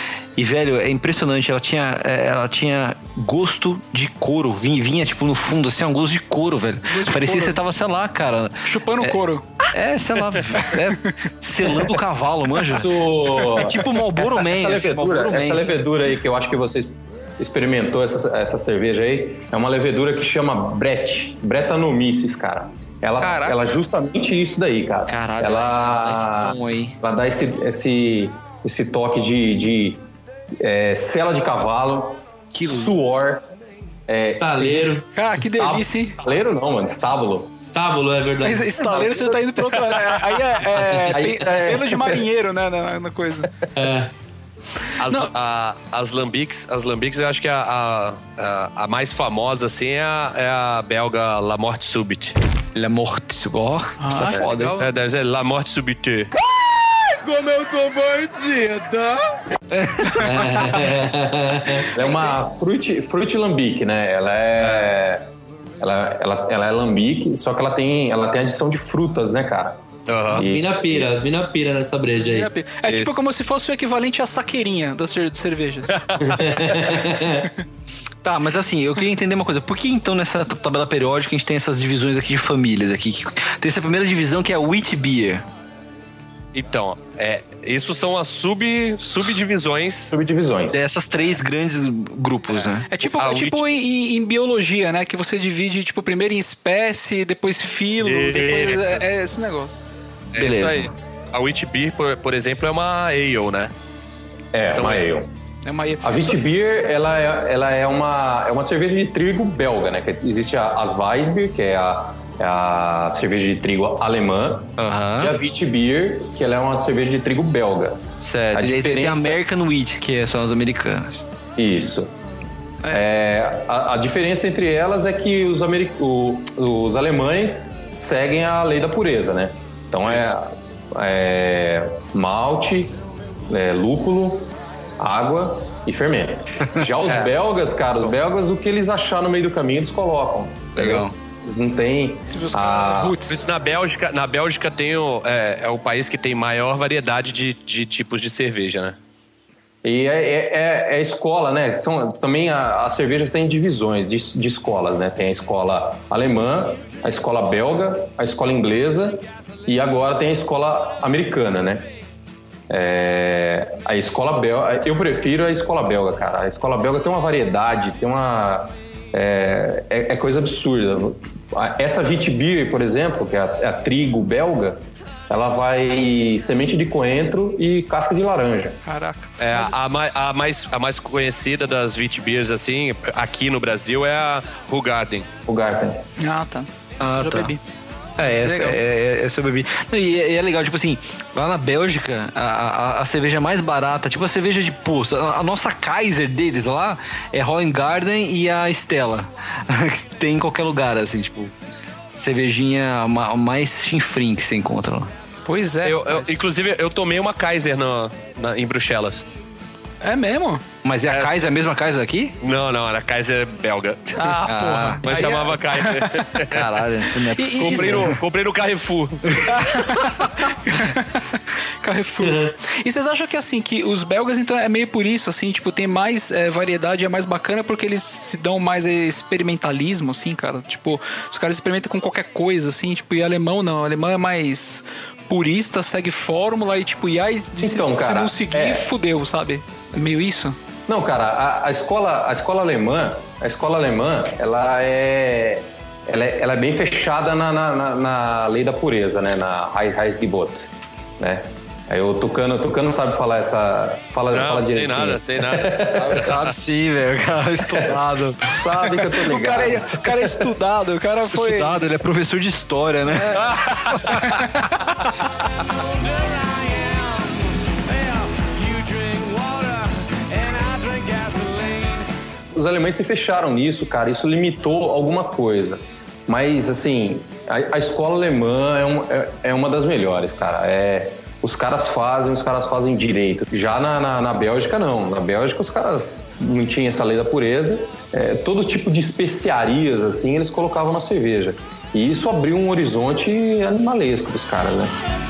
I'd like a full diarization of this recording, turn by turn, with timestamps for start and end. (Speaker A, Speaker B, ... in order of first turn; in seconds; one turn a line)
Speaker A: 0.4-9.2
Speaker B: 6.9-7.5
Speaker B: 8.6-9.5
Speaker A: 9.7-12.9
Speaker C: 12.6-30.0
Speaker A: 13.6-15.8
Speaker B: 23.2-23.6
Speaker A: 25.1-26.9
Speaker C: 30.6-33.5
Speaker A: 32.5-32.9
Speaker C: 34.1-34.9
Speaker D: 34.3-35.0
Speaker B: 35.1-36.1
Speaker C: 35.4-37.5
Speaker D: 37.6-38.7
Speaker B: 38.4-43.5
Speaker C: 38.9-39.4
Speaker D: 40.8-41.3
Speaker C: 41.1-42.0
Speaker D: 43.7-44.1
Speaker E: 45.0-52.4
Speaker A: 52.7-54.8
Speaker B: 54.0-54.9
Speaker E: 54.3-56.3
Speaker F: 57.2-59.1
Speaker A: 59.8-60.2
Speaker D: 60.2-61.9
Speaker C: 61.9-65.3
Speaker E: 64.6-64.9
Speaker C: 65.8-69.8
Speaker E: 70.1-70.4
Speaker C: 70.3-71.1
Speaker D: 70.3-72.5
Speaker B: 72.2-76.0
Speaker E: 72.8-73.2
Speaker D: 76.2-77.5
Speaker A: 78.2-85.4
Speaker E: 86.5-90.1
Speaker C: 90.1-90.8
Speaker A: 90.7-92.9
Speaker B: 92.9-99.7
Speaker E: 93.0-93.6
Speaker E: 98.0-99.0
Speaker A: 100.3-100.9
Speaker E: 100.3-103.7
Speaker C: 104.5-105.3
Speaker E: 104.7-105.1
Speaker B: 105.6-106.4
Speaker C: 106.0-118.0
Speaker A: 114.8-115.3
Speaker A: 118.2-121.2
Speaker C: 118.5-119.4
Speaker C: 121.5-122.1
Speaker C: 122.9-132.9
Speaker C: 133.5-143.2
Speaker A: 140.8-141.1
Speaker B: 142.3-143.4
Speaker E: 143.3-149.0
Speaker C: 149.8-161.9
Speaker C: 162.7-178.8
Speaker B: 178.8-179.7
Speaker E: 179.4-185.3
Speaker C: 185.4-186.0
Speaker B: 186.2-187.6
Speaker A: 187.0-187.5
Speaker A: 188.2-201.5
Speaker B: 188.4-188.8
Speaker A: 202.1-205.1
Speaker B: 205.4-206.3
Speaker E: 205.8-209.2
Speaker B: 210.0-210.6
Speaker A: 210.8-212.3
Speaker E: 212.4-214.3
Speaker B: 214.2-216.3
Speaker A: 214.4-215.0
Speaker E: 215.0-216.6
Speaker A: 216.5-218.2
Speaker B: 217.3-218.1
Speaker E: 217.6-219.6
Speaker B: 219.6-240.6
Speaker D: 222.2-222.5
Speaker C: 237.6-238.9
Speaker C: 240.9-250.7
Speaker C: 251.2-256.2
Speaker E: 254.3-256.4
Speaker A: 255.9-258.4
Speaker C: 257.8-260.5
Speaker B: 259.0-261.8
Speaker A: 261.3-263.6
Speaker B: 264.1-264.9
Speaker F: 265.7-272.1
Speaker C: 272.5-294.9